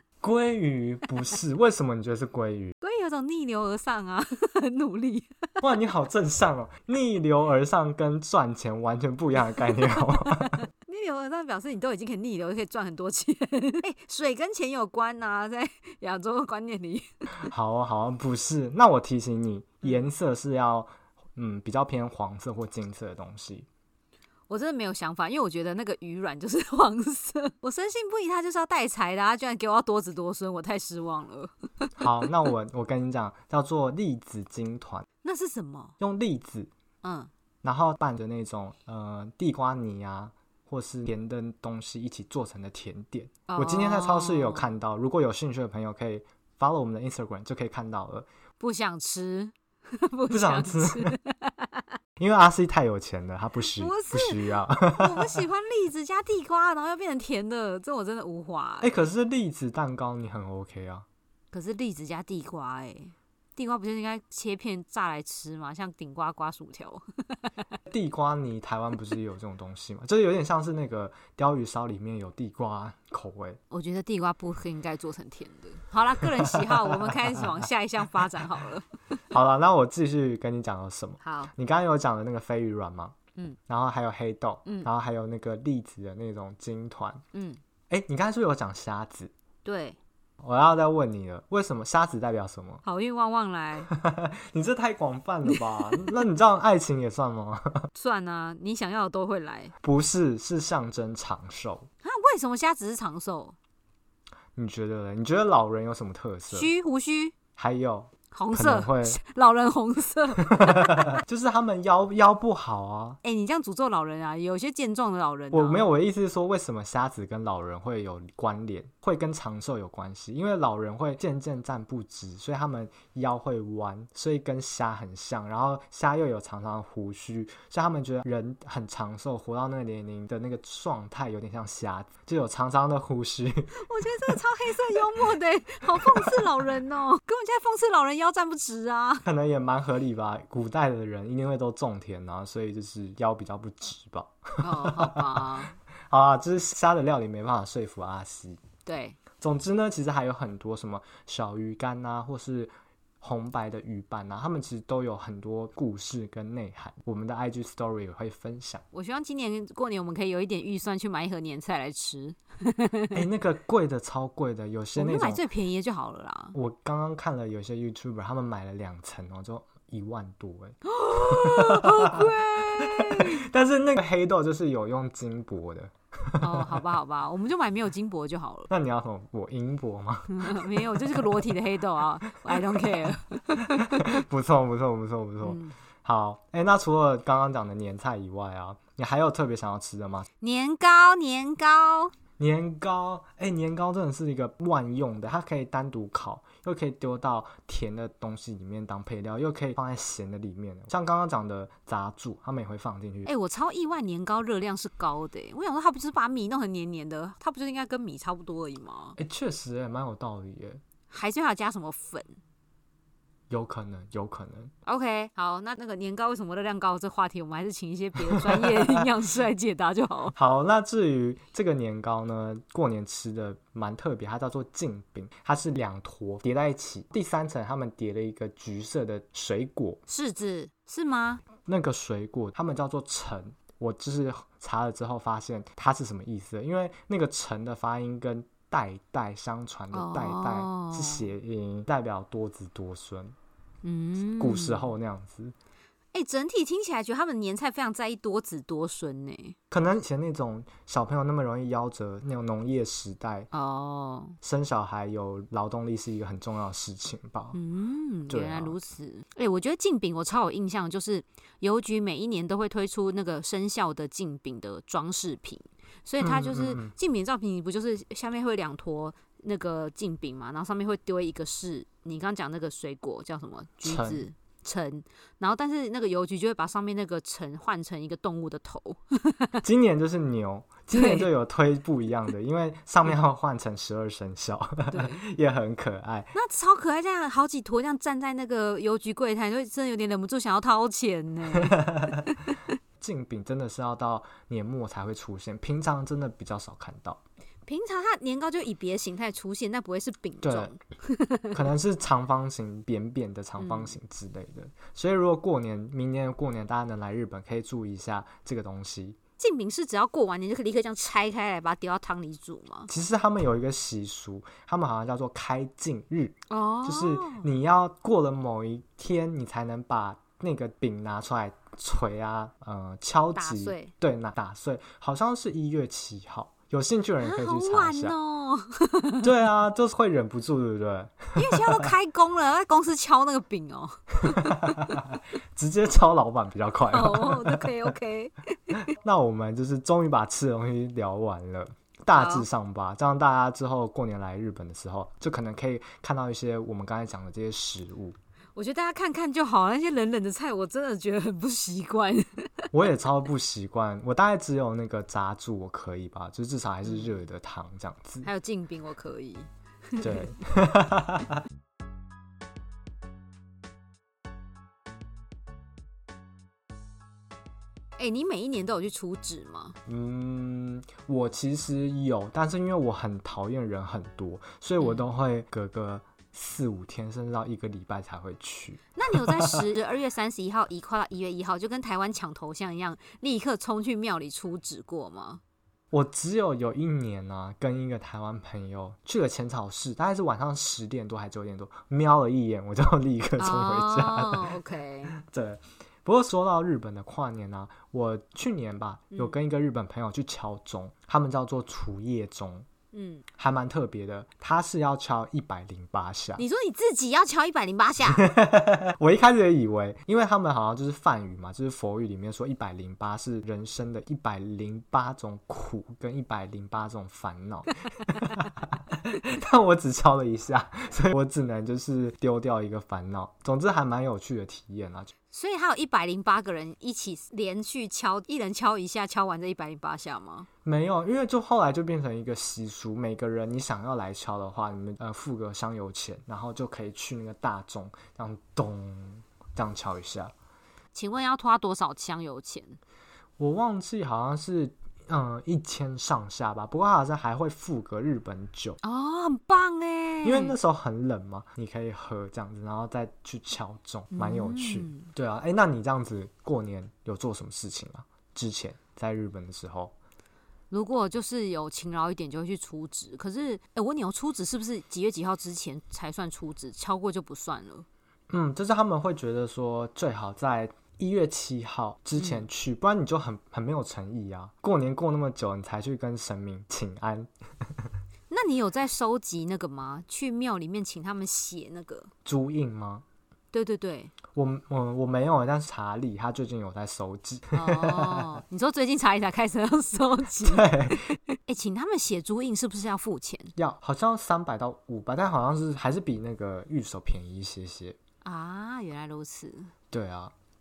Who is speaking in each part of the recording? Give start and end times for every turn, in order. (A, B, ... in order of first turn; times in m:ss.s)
0:00.2-0:02.7 A
0:02.8-0:05.4 B
0:05.6-0:10.7 A
0:10.4-0:17.5 B
0:17.5-0:23.7 A
0:24.5-0:31.9 B
0:32.0-0:35.0 A
0:35.2-0:35.9 B
0:36.0-0:36.7 A
0:37.0-0:37.3 B
0:37.6-0:48.3 A
0:43.5-0:44.7 B
0:48.6-0:51.8 B
0:50.3-0:51.2 A
0:52.2-0:55.4 A
0:53.8-0:58.9 B
0:58.8-1:01.0 A
1:01.5-1:07.5 B
1:07.9-1:13.6 A
1:13.7-1:18.9 B
1:16.5-1:17.5 A
1:19.3-1:23.2 A
1:21.2-1:21.5 B
1:23.7-1:27.2 A
1:27.3-1:27.6 B
1:27.9-1:29.3 A
1:29.6-1:30.0 B
1:30.4-1:32.8 A
1:32.8-1:33.9 B
1:33.8-1:37.9 A
1:35.5-1:36.1 B
1:37.9-1:39.7 B
1:39.8-1:41.9 A
1:42.0-1:43.6 B
1:44.6-1:46.7 A
1:46.5-1:47.3 B
1:47.6-1:49.2 A
1:48.3-1:51.2 B
1:50.4-1:53.2 A
1:53.2-1:55.9 B
1:55.5-2:13.7 A
2:13.8-2:19.2 B
2:15.9-2:16.5 A
2:19.2-2:28.6 A
2:24.6-2:25.7 B
2:28.8-2:29.2 B
2:29.4-2:38.8 A
2:38.9-2:43.2 B
2:43.1-2:45.4 A
2:45.0-2:46.6 B
2:46.5-2:56.8 A
2:50.8-2:53.4 B
2:56.4-2:58.7 B
2:58.7-3:01.4 A
3:00.3-3:04.2 B
3:02.4-3:02.9 A
3:03.6-3:10.3 A
3:05.4-3:05.7 B
3:10.4-3:12.1 B
3:12.4-3:23.3 A
3:23.2-3:29.2 B
3:29.2-3:30.8 A
3:31.1-3:32.3 B
3:33.5-3:34.7 A
3:34.8-3:40.3 B
3:38.3-3:39.0 A
3:40.3-3:50.0 A
3:50.1-3:51.4 B
3:51.6-4:03.3 A
3:59.9-4:01.3 B
4:03.8-4:04.9 B
4:04.2-4:05.5 A
4:06.1-4:09.6 B
4:09.7-4:13.5 A
4:13.5-4:14.4 B
4:14.4-4:17.6 A
4:17.5-4:39.6 B
4:18.3-4:18.8 A
4:26.2-4:26.9 A
4:33.8-4:34.2 A
4:39.6-4:46.3 A
4:40.9-4:41.3 B
4:44.9-4:45.2 B
4:46.3-4:52.7 B
4:51.5-4:52.2 A
4:53.0-4:57.2 A
4:57.7-5:01.6 B
5:00.4-5:00.7 A
5:01.5-5:09.2 A
5:03.6-5:03.9 B
5:09.4-5:12.9 B
5:12.9-5:28.2 A
5:16.5-5:17.4 B
5:23.4-5:23.9 B
5:27.2-5:29.2 B
5:29.2-5:31.9 A
5:31.3-5:35.0 B
5:34.2-5:37.9 A
5:36.9-5:38.8 B
5:38.9-5:48.2 A
5:42.1-5:42.4 B
5:48.6-5:52.6 B
5:52.7-5:58.3 A
5:58.2-6:00.2 B
6:00.0-6:01.4 A
6:08.0-6:09.8 B
6:09.8-6:19.6 A
6:19.0-6:25.4 B
6:25.9-6:34.5 A
6:33.4-6:35.1 B
6:35.0-6:42.7 A
6:42.9-6:43.2 B
6:43.4-6:46.4 A
6:46.4-6:48.3 B
6:48.1-7:05.1 A
7:05.3-7:10.5 B
7:10.6-7:20.3 A
7:20.9-7:22.8 B
7:23.4-7:28.8 A
7:28.8-7:30.6 B
7:30.2-7:39.9 A
7:34.1-7:35.1 B
7:40.7-7:47.8 B
7:48.3-7:57.9 A
7:58.3-8:02.1 B
8:02.2-8:03.0 A
8:03.5-8:04.1 B
8:04.3-8:08.3 A
8:07.5-8:13.5 B
8:10.4-8:11.2 A
8:13.6-8:18.0 A
8:18.2-8:19.7 B
8:19.9-8:20.3 A